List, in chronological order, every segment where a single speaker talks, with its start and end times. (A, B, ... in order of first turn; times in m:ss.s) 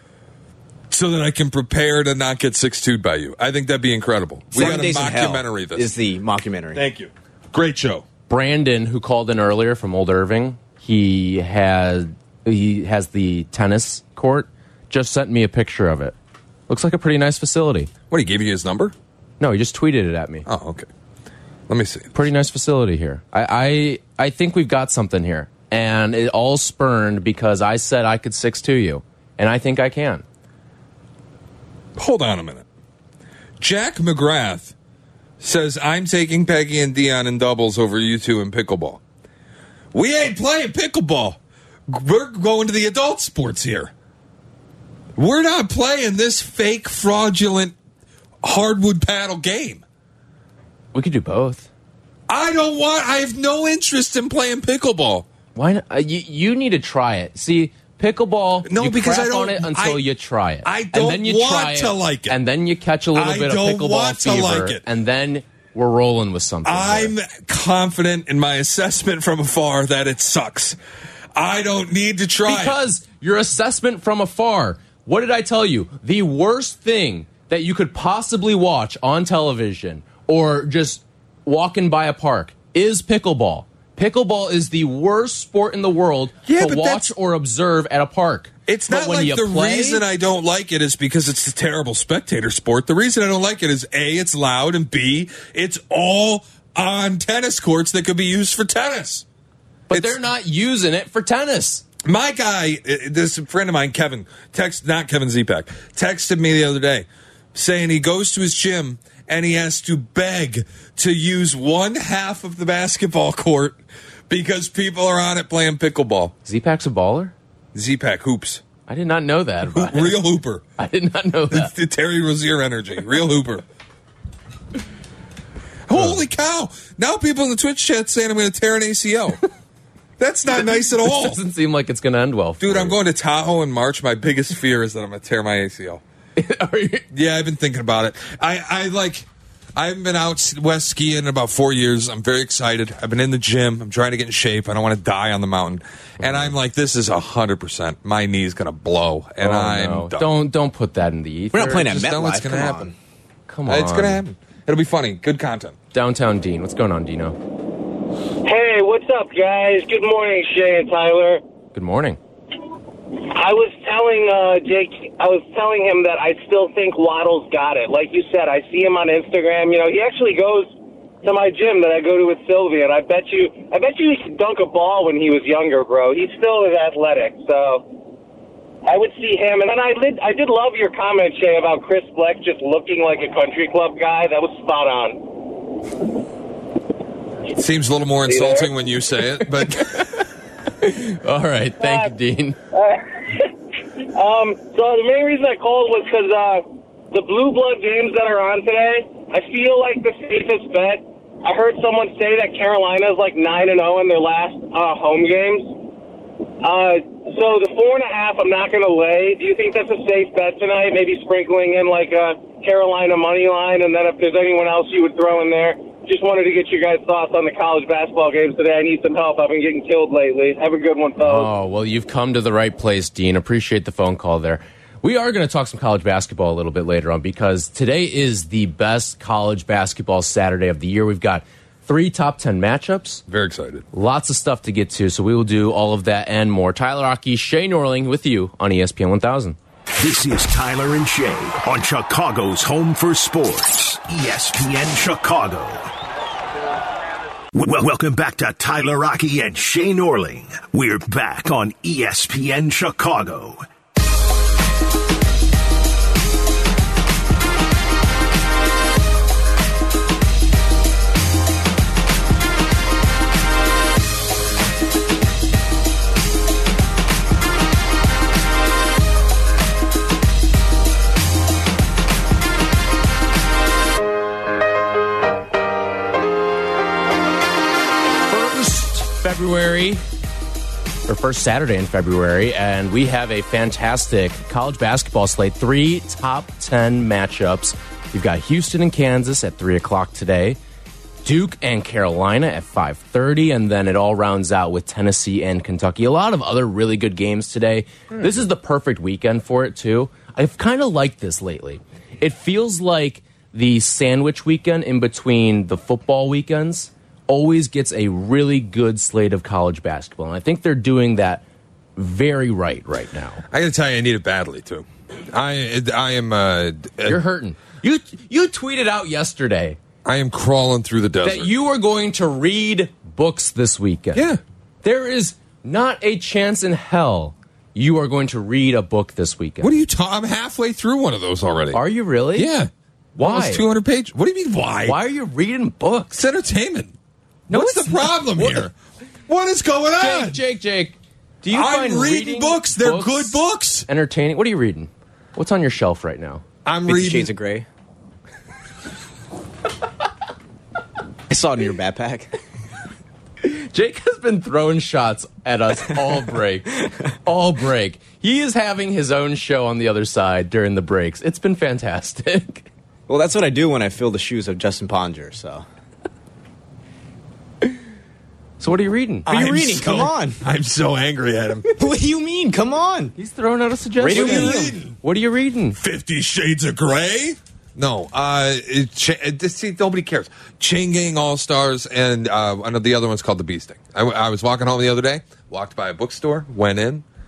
0:00.9-0:05.9 A
0:04.5-0:06.8 B
0:06.7-0:08.1 A
0:08.3-0:16.2 C
0:16.7-0:17.9 C
0:18.1-0:19.0 A
0:19.4-0:20.5 C
0:20.5-0:20.9 A
0:21.7-0:22.2 A
0:22.1-0:30.2 C
0:32.0-0:32.7 A
0:33.6-0:34.7 A
0:35.4-0:39.0 A
0:39.9-0:43.9 A
0:45.2-0:47.8 A
0:48.4-0:49.8 A
0:50.9-0:51.7 C
0:52.3-0:55.3 A
0:55.6-1:07.1 C
0:58.6-1:00.0 A
1:00.6-1:02.4 A
1:03.1-1:04.8 A
1:06.6-1:10.8 A
1:11.4-1:12.8 A
1:12.4-1:30.0 C
1:26.5-1:27.1 A
1:28.7-1:39.2 A
1:39.9-1:41.8 C
1:39.9-1:40.2 A
1:42.0-1:56.3 A
1:56.4-1:57.3 C
1:57.7-1:58.6 A
1:58.9-2:00.3 C
1:59.7-2:00.6 A
2:00.8-2:01.7 C
2:01.5-2:03.6 A
2:05.9-2:09.4 A
2:10.2-2:11.4 A
2:10.9-2:13.0 C
2:12.6-2:16.0 A
2:16.4-2:17.1 C
2:17.1-2:30.3 A
2:26.2-2:26.5 C
2:29.4-2:31.9 C
2:31.5-2:32.9 B
2:31.7-2:32.9 A
2:33.5-2:34.2 C
2:33.7-2:35.8 A
2:35.9-2:37.4 C
2:38.4-2:41.4 D
2:41.7-2:42.2 C
2:43.2-2:57.9 D
2:58.9-3:05.3 D
3:07.5-3:10.1 A
3:08.3-3:08.7 D
3:09.8-3:10.1 C
3:10.8-3:12.6 C
3:11.8-3:12.1 D
3:12.7-3:13.5 D
3:14.1-3:25.8 D
3:26.6-3:41.5 D
3:41.2-3:53.2 C
3:53.3-3:53.8 A
3:53.9-3:59.6 C
4:00.0-4:05.9 E
4:07.5-4:13.6 E
4:38.3-4:40.0 C
4:41.1-4:50.6 C
4:51.2-5:11.4 C
5:12.0-5:13.4 C
5:13.5-5:17.2 A
5:17.1-5:19.8 C
5:20.0-5:21.5 A
5:21.2-5:24.3 C
5:24.1-5:24.4 A
5:24.8-5:29.7 C
5:29.6-5:31.8 A
5:31.7-5:32.5 C
5:32.4-5:35.0 A
5:33.2-5:33.6 C
5:34.8-5:36.2 C
5:36.2-5:37.0 A
5:37.5-5:38.7 A
5:37.5-5:38.7 C
5:39.3-5:40.4 A
5:40.0-5:46.4 C
5:41.5-5:43.9 A
5:46.6-5:47.3 A
5:46.9-5:47.7 B
5:51.3-5:52.3 B
5:53.4-6:02.7 C
6:03.1-6:05.6 B
6:08.6-6:09.3 C
6:09.3-6:11.7 A
6:09.3-6:10.4 B
6:11.8-6:13.1 B
6:13.2-6:15.8 C
6:14.0-6:14.8 B
6:14.1-6:15.0 A
6:15.8-6:27.0 A